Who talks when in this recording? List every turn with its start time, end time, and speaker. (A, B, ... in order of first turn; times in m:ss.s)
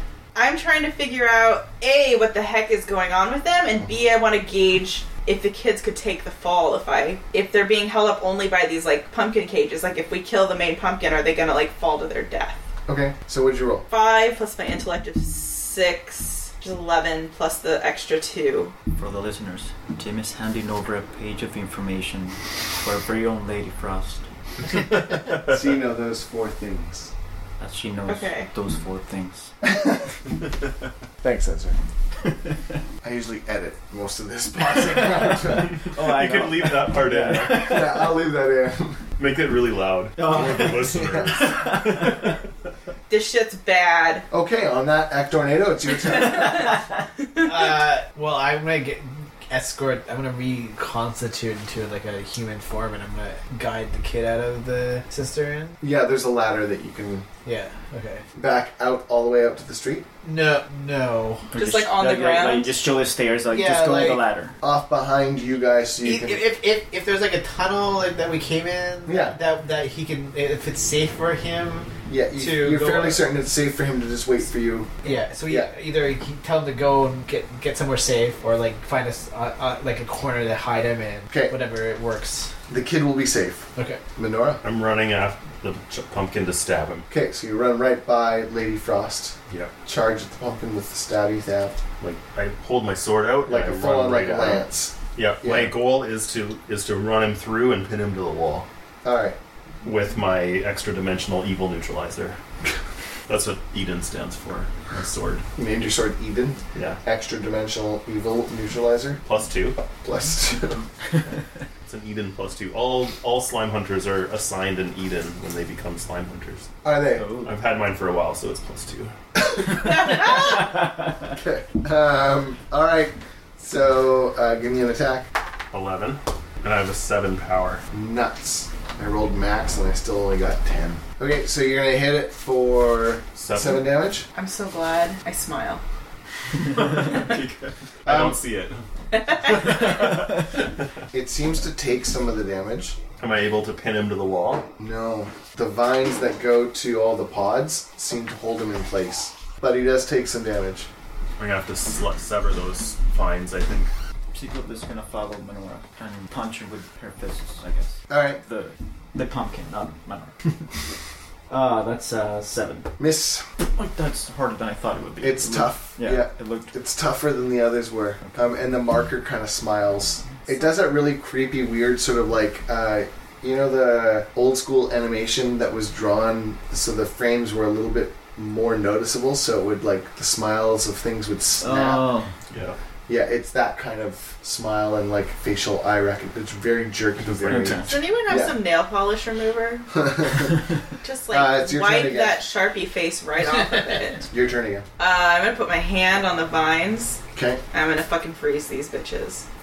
0:00.4-0:12.6 A
0:12.9-0:13.8 B
0:13.9-0:18.7 A
0:19.0-0:24.2 C
0:25.3-0:27.1 B
0:27.6-0:29.5 C
0:28.1-0:28.5 A
0:29.6-0:30.1 B
0:31.2-0:31.8 B
0:33.0-0:35.8 B
0:35.6-0:37.9 D
0:35.8-0:38.1 C
0:37.4-0:39.0 B
0:39.2-0:42.3 D
0:40.2-0:42.4 C
0:40.3-0:41.6 B
0:43.1-0:44.3 A
0:44.3-0:46.7 B
0:46.2-0:46.7 A
0:47.4-0:55.8 E
0:55.8-0:57.3 B
0:57.4-0:58.2 E
0:58.4-1:00.1 B
1:00.2-1:01.5 E
1:01.5-1:04.5 C
1:01.5-1:02.8 A
1:03.5-1:04.2 E
1:04.6-1:06.5 B
1:06.0-1:13.2 E
1:09.1-1:09.4 B
1:12.1-1:15.7 B
1:15.0-1:22.5 E
1:22.7-1:24.6 B
1:23.8-1:24.0 E
1:24.6-1:27.1 D
1:27.1-1:31.8 B
1:32.0-1:34.6 D
1:33.5-1:35.8 B
1:35.2-1:38.7 D
1:39.0-1:39.4 B
1:39.8-1:42.4 D
1:43.3-1:45.4 D
1:45.6-1:49.2 B
1:46.8-1:47.0 D
1:49.2-1:49.8 D
1:50.0-1:50.9 B
1:51.8-1:56.7 D
1:56.8-1:57.3 B
1:57.2-1:57.5 C
1:57.4-1:59.1 D
1:59.6-2:01.0 A
2:01.3-2:05.3 B
2:05.7-2:07.8 D
2:07.9-2:14.3 B
2:13.4-2:13.8 D
2:14.4-2:15.8 A
2:16.6-2:18.8 D
2:18.1-2:18.4 B
2:19.1-2:19.8 A
2:19.4-2:20.8 D
2:21.1-2:23.0 B
2:23.2-2:24.7 D
2:24.8-2:30.9 B
2:31.4-2:33.9 D
2:34.3-2:40.7 C
2:38.1-2:38.4 B
2:41.5-2:42.9 C
2:43.0-2:43.4 B
2:43.6-2:46.7 C
2:45.2-3:02.1 B
3:01.6-3:02.3 C
3:02.5-3:02.8 D
3:03.1-3:08.6 B
3:07.3-3:07.7 D
3:07.4-3:08.0 C
3:07.8-3:10.4 A
3:09.9-3:10.6 B
3:11.0-3:14.3 A
3:11.3-3:12.4 B
3:14.3-3:14.9 B
3:15.0-3:19.4 A
3:17.3-3:17.6 B